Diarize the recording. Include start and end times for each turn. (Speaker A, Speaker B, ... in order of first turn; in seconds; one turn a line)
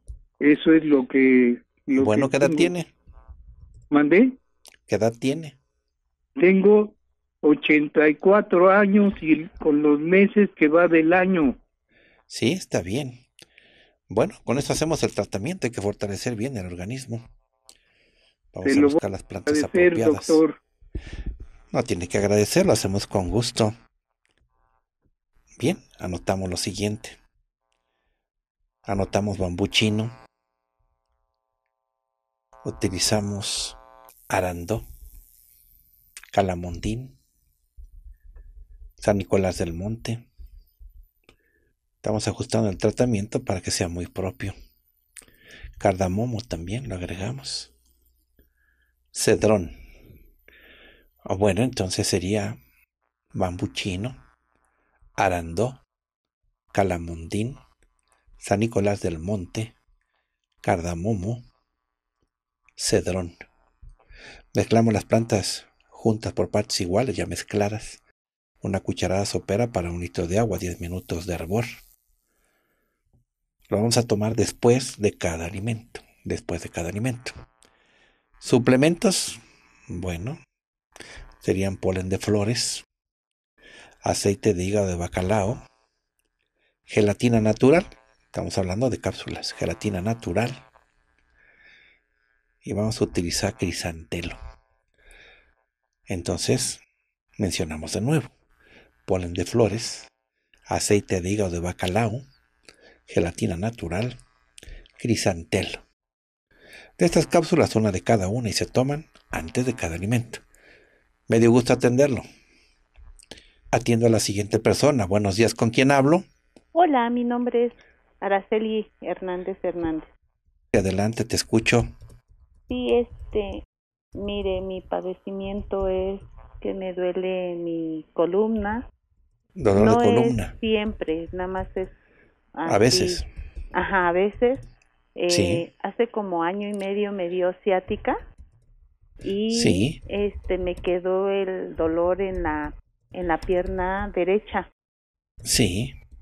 Speaker A: 0.4-2.7
Speaker B: 1.9-2.9
Speaker A: 3.9-4.4
Speaker B: 4.9-5.6
Speaker A: 6.4-11.6
Speaker B: 12.3-13.2
Speaker B: 14.1-17.3
Speaker B: 18.5-20.4
Speaker A: 18.6-20.6
Speaker B: 21.7-23.8
Speaker B: 25.6-27.2
Speaker B: 28.9-30.1
Speaker B: 32.6-33.8
Speaker B: 34.3-34.9
Speaker B: 36.3-37.2
Speaker B: 39.0-40.3
Speaker B: 42.0-44.5
Speaker B: 45.8-47.7
Speaker B: 49.1-49.8
Speaker B: 51.2-52.6
Speaker B: 53.3-54.2
Speaker B: 55.2-55.8
Speaker B: 56.7-57.6
Speaker B: 58.4-59.8
Speaker B: 60.6-61.5
Speaker B: 62.8-63.4
Speaker B: 64.5-68.0
Speaker B: 68.6-71.7
Speaker B: 73.7-77.4
Speaker B: 78.4-80.4
Speaker B: 81.4-82.8
Speaker B: 84.0-85.6
Speaker B: 86.9-90.6
Speaker B: 92.6-94.4
Speaker B: 96.1-96.8
Speaker B: 97.4-98.3
Speaker B: 99.1-100.1
Speaker B: 100.7-102.2
Speaker B: 103.1-104.2
Speaker B: 105.0-105.8
Speaker B: 107.0-110.4
Speaker B: 111.3-112.3
Speaker B: 113.7-116.3
Speaker C: 116.7-120.1
Speaker B: 120.7-121.9
Speaker C: 122.7-123.6
Speaker C: 124.2-128.9
Speaker B: 129.6-130.5
Speaker C: 129.7-131.9
Speaker C: 132.6-133.2
Speaker B: 132.7-133.3
Speaker C: 133.7-138.2
Speaker B: 135.3-135.7
Speaker C: 139.2-144.7
Speaker B: 139.5-140.0
Speaker B: 145.4-146.0